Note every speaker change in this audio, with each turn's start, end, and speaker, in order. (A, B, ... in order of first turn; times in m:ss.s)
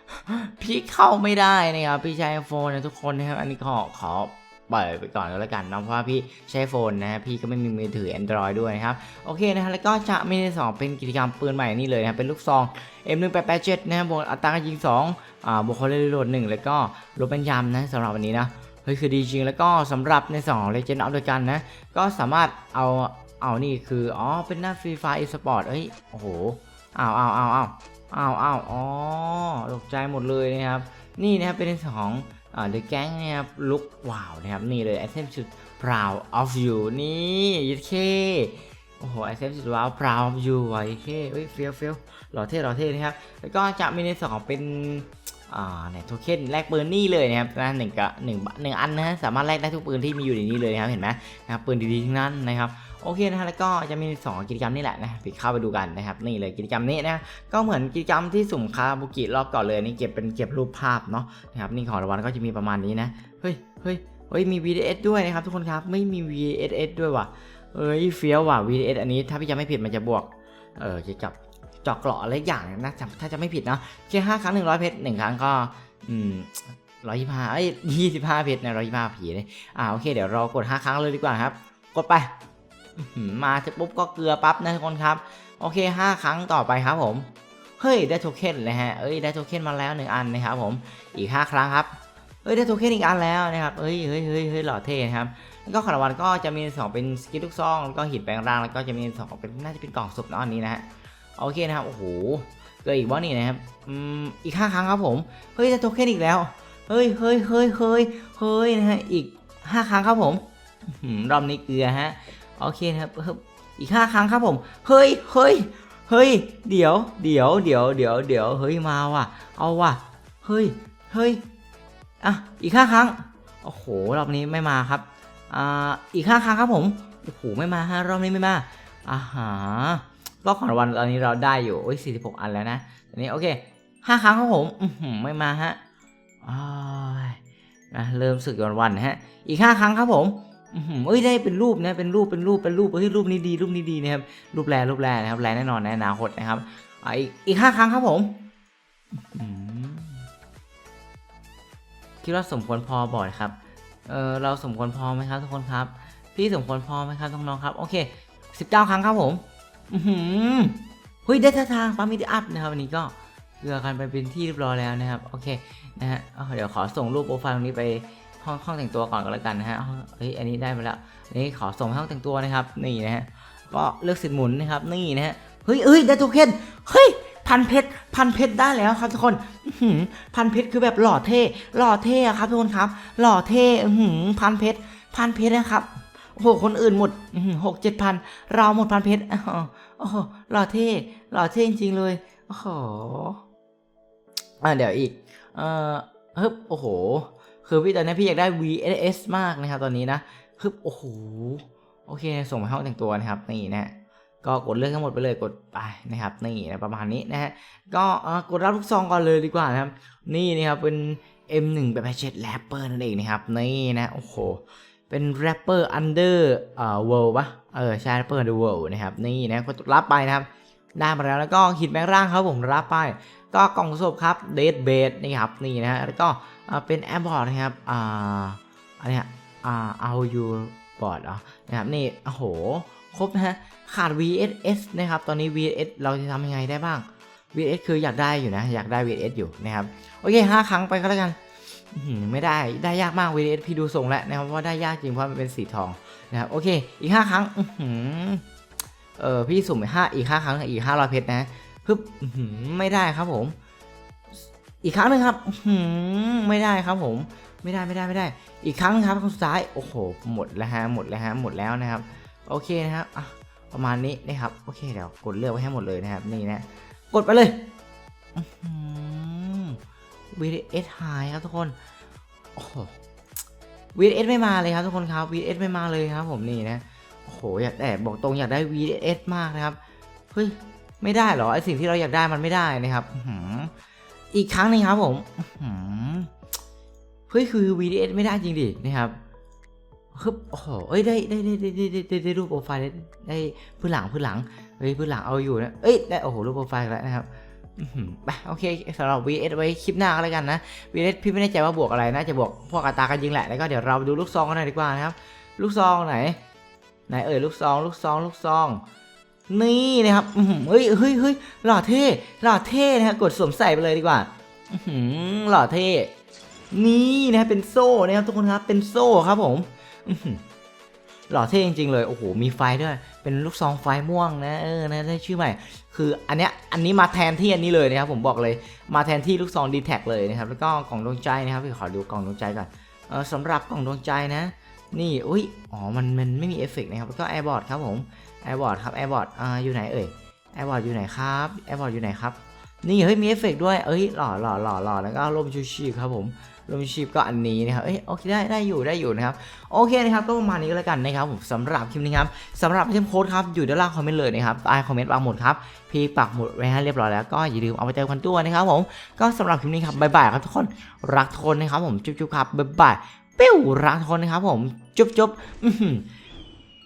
0:00.3-1:22.3 A
1:23.0-1:27.3 A
1:27.8-1:31.9 A
1:32.4-1:40.9 A
1:41.4-2:01.4 A
2:02.2-2:15.8 A
2:16.4-2:17.4 A
2:17.9-2:28.5 A
2:29.2-2:30.2 A
2:32.2-3:13.4 A
3:14.6-4:08.4 A
4:09.2-4:13.6 A
4:14.8-4:27.7 A
4:28.4-4:29.8 A
4:30.3-4:31.8 A
4:32.6-4:32.9 A
4:34.0-4:39.8 A
4:40.3-4:43.7 A
4:44.3-4:46.3 A
4:47.3-4:49.2 A
4:50.1-5:06.4 A
5:07.1-5:08.8 A
5:09.5-5:16.1 A
5:16.7-5:20.4 A
5:21.3-6:06.1 A